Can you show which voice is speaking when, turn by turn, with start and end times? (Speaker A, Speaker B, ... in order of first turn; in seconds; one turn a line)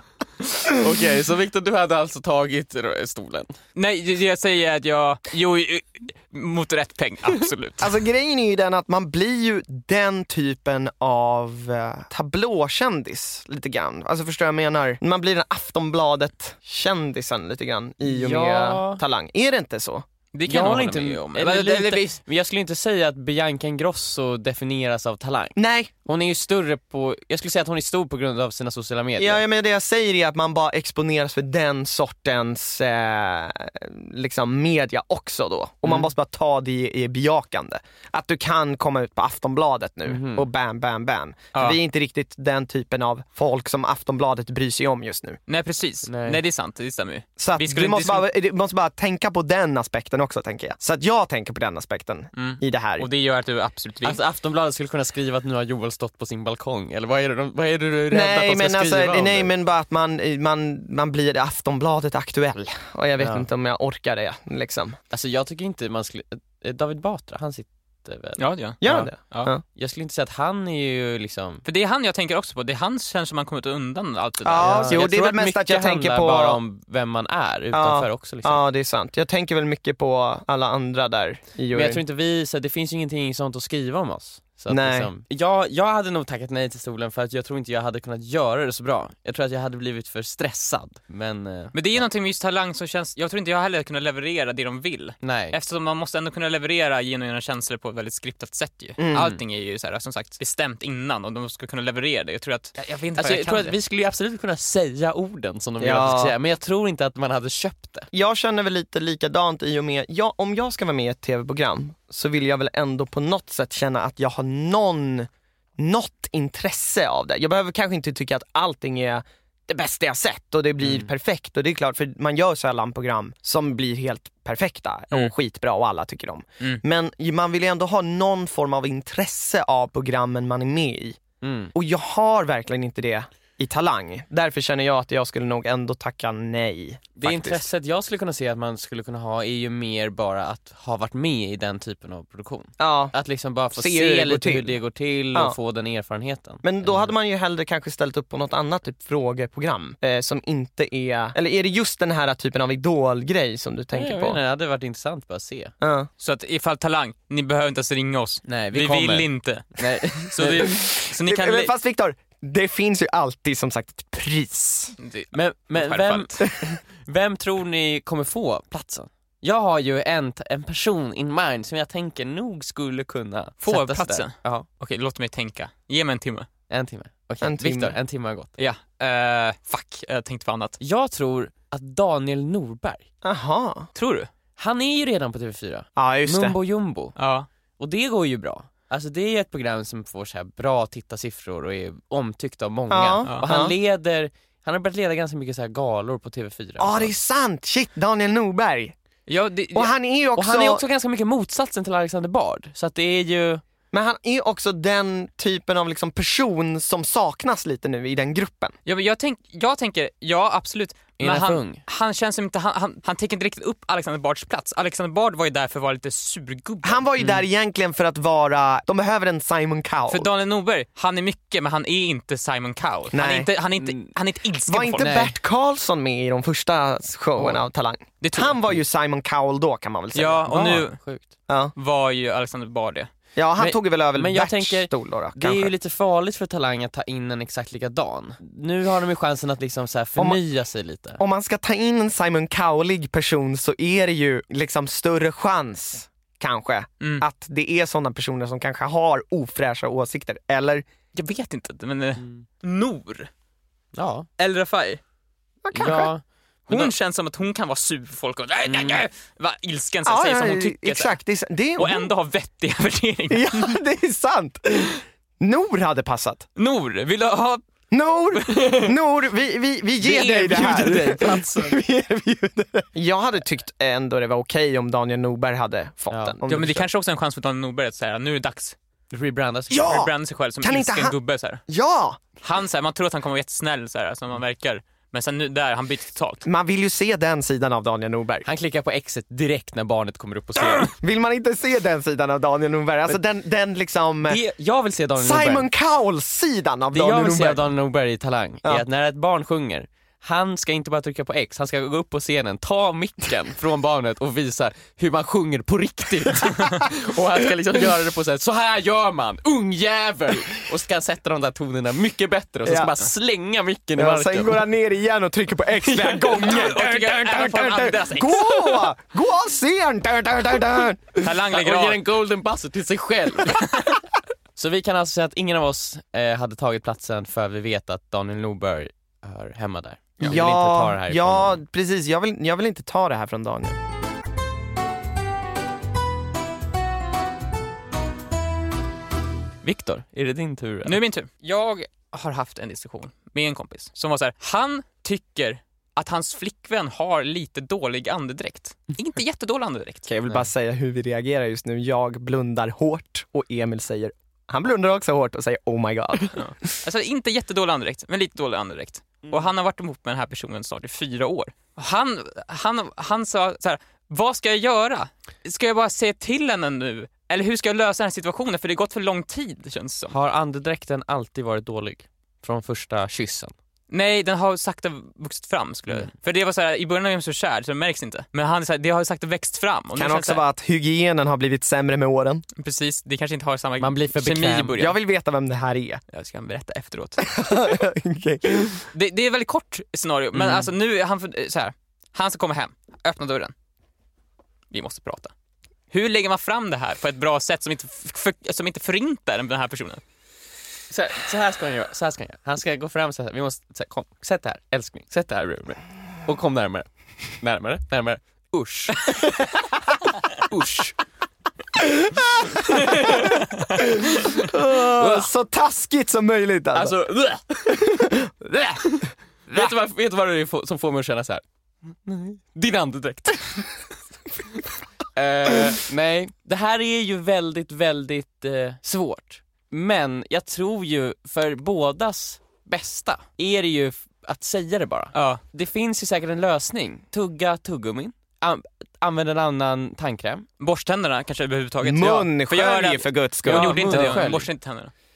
Speaker A: 0.7-3.5
Speaker B: 3.8-7.9
Speaker C: 7.8-20.1
Speaker A: 18.0-19.0
Speaker B: 20.3-22.2
Speaker A: 20.5-29.4
Speaker C: 25.6-25.9
Speaker C: 29.2-45.4
Speaker A: 40.1-40.5
Speaker B: 45.5-48.3
Speaker A: 46.1-46.4
Speaker C: 47.4-53.1
Speaker B: 52.4-54.2
Speaker A: 54.0-59.5
Speaker C: 58.1-65.0
Speaker A: 63.2-63.5
Speaker A: 65.1-69.1
Speaker B: 68.4-69.5
Speaker C: 68.8-69.6
Speaker A: 69.7-71.6
Speaker B: 71.7-75.1
Speaker C: 74.4-76.6
Speaker A: 74.6-78.6
Speaker C: 77.7-82.0
Speaker A: 81.7-92.0
Speaker C: 84.7-85.1
Speaker B: 91.7-103.8
Speaker A: 95.2-95.6
Speaker C: 99.0-99.4
Speaker A: 103.2-108.1
Speaker C: 105.8-106.3
Speaker C: 108.1-131.2
Speaker A: 120.8-121.1
Speaker A: 131.4-131.7
Speaker C: 131.7-137.7
Speaker A: 137.2-147.1
Speaker C: 142.8-143.1
Speaker C: 143.8-144.8
Speaker C: 146.6-154.4
Speaker A: 153.9-155.7
Speaker C: 155.8-156.1
Speaker B: 156.2-161.7
Speaker A: 158.5-160.7
Speaker C: 160.7-164.9
Speaker B: 165.0-166.5
Speaker A: 165.3-166.5
Speaker A: 167.0-174.7
Speaker B: 173.6-176.5
Speaker A: 176.7-178.6
Speaker C: 177.4-178.0
Speaker B: 178.6-180.8
Speaker A: 180.8-183.1
Speaker C: 183.2-183.9
Speaker B: 183.9-184.3
Speaker A: 184.6-187.2
Speaker C: 186.0-186.6
Speaker B: 187.2-187.5
Speaker A: 187.8-197.1
Speaker C: 192.9-193.7
Speaker C: 196.8-198.9
Speaker B: 199.3-199.9
Speaker C: 199.7-200.8
Speaker A: 200.4-203.6
Speaker C: 203.9-208.7
Speaker B: 208.9-217.1
Speaker A: 211.2-211.8
Speaker C: 216.8-220.3
Speaker B: 220.1-225.2
Speaker C: 223.1-223.5
Speaker A: 223.8-224.1
Speaker C: 224.7-230.8
Speaker A: 225.0-225.4
Speaker B: 228.2-228.6
Speaker B: 230.1-231.0
Speaker A: 230.5-231.3
Speaker C: 231.5-231.7
Speaker B: 231.8-233.1
Speaker C: 233.4-235.7
Speaker A: 233.6-241.2
Speaker C: 241.2-250.8
Speaker B: 251.1-253.3
Speaker A: 253.9-254.3
Speaker B: 254.4-255.0
Speaker C: 255.6-256.1
Speaker A: 255.7-256.9
Speaker B: 256.7-261.2
Speaker A: 258.7-259.0
Speaker C: 260.1-262.1
Speaker B: 261.8-263.8
Speaker C: 263.3-266.5
Speaker B: 266.6-267.6
Speaker C: 267.9-276.9
Speaker B: 268.3-268.9
Speaker A: 270.0-271.8
Speaker A: 276.1-276.4
Speaker B: 276.5-278.8
Speaker A: 279.1-279.9
Speaker C: 279.7-281.2
Speaker B: 279.8-281.6
Speaker C: 281.7-282.2
Speaker B: 282.4-286.4
Speaker C: 286.4-288.4
Speaker A: 288.4-290.9
Speaker C: 291.0-294.4
Speaker A: 294.2-295.7
Speaker C: 295.2-297.7
Speaker A: 296.9-314.6
Speaker C: 312.6-312.9
Speaker C: 314.0-321.3
Speaker B: 316.3-318.9
Speaker B: 321.2-322.0
Speaker A: 321.5-323.7
Speaker A: 324.6-331.6
Speaker C: 330.2-333.8
Speaker A: 339.6-341.0
Speaker B: 340.9-350.1
Speaker C: 350.1-356.4
Speaker B: 356.3-370.1
Speaker A: 370.1-373.5
Speaker B: 373.9-380.4
Speaker C: 379.9-382.4
Speaker B: 382.6-384.9
Speaker A: 383.8-384.8
Speaker C: 384.8-386.0
Speaker B: 386.1-387.2
Speaker C: 387.2-388.9
Speaker B: 388.9-393.5
Speaker A: 390.3-390.7
Speaker B: 394.7-395.3
Speaker B: 395.9-400.0
Speaker A: 400.9-409.7
Speaker A: 410.4-411.0
Speaker C: 411.8-416.9
Speaker A: 412.6-413.4
Speaker A: 414.8-415.3
Speaker A: 416.7-418.1
Speaker C: 417.7-418.9
Speaker A: 418.9-421.4
Speaker A: 422.0-423.7
Speaker A: 425.1-440.5
Speaker B: 435.1-435.4
Speaker B: 440.6-444.9
Speaker C: 441.8-444.2
Speaker A: 443.4-444.5